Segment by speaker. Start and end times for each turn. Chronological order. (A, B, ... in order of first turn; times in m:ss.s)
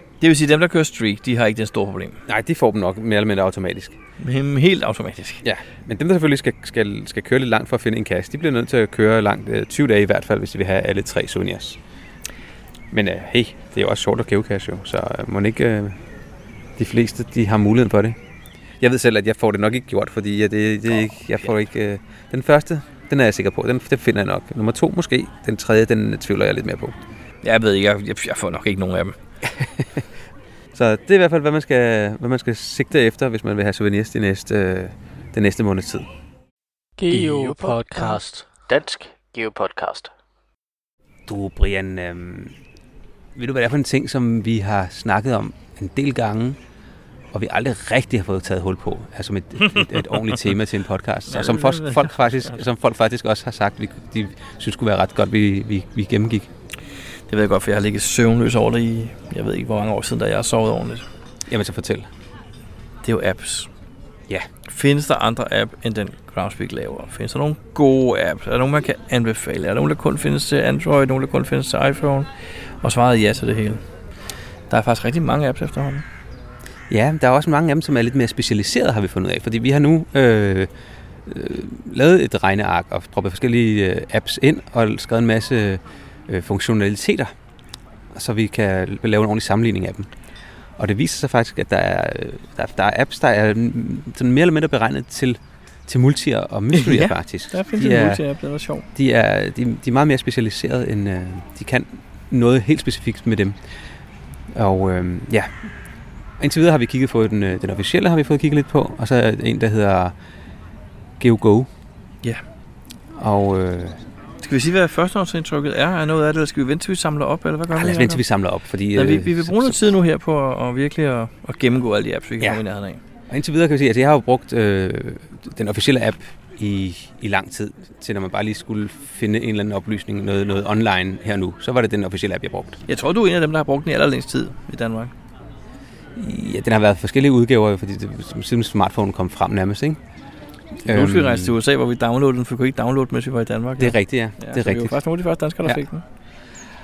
0:00.2-0:02.2 A
0:02.3-0:04.0 B
0:04.2-0:05.4 A
0:05.4-0:11.8 B
0:12.9-0:16.0 B
0:16.8-0:18.2 B
0:18.8-0:27.0 B
0:27.4-0:29.2 A
0:29.6-0:30.0 B
0:30.7-0:36.1 B
0:37.0-0:40.1 C
0:41.3-0:42.6 B
0:43.3-0:46.6 B
0:47.3-0:56.5 B
0:51.3-0:52.1 A
0:57.3-1:01.0 A
1:01.5-1:02.1 B
1:03.0-1:03.7 A
1:04.6-1:12.3 A
1:12.8-1:13.8 A
1:14.7-1:16.0 A
1:16.9-1:20.7 B
1:21.2-1:27.3 B
1:28.1-1:30.1 B
1:30.8-1:38.2 B
1:36.7-1:38.8 A
1:38.9-1:43.6 B
1:44.5-1:45.6 B
1:46.4-1:50.1 B
1:51.2-1:51.7 B
1:53.1-1:54.0 B
1:54.4-1:58.2 A
1:57.7-1:59.8 B
1:58.9-2:03.0 A
2:03.3-2:12.8 B
2:12.9-2:15.1 A
2:16.2-2:20.0 B
2:20.8-2:26.0 A
2:20.8-2:21.6 B
2:23.8-2:25.0 B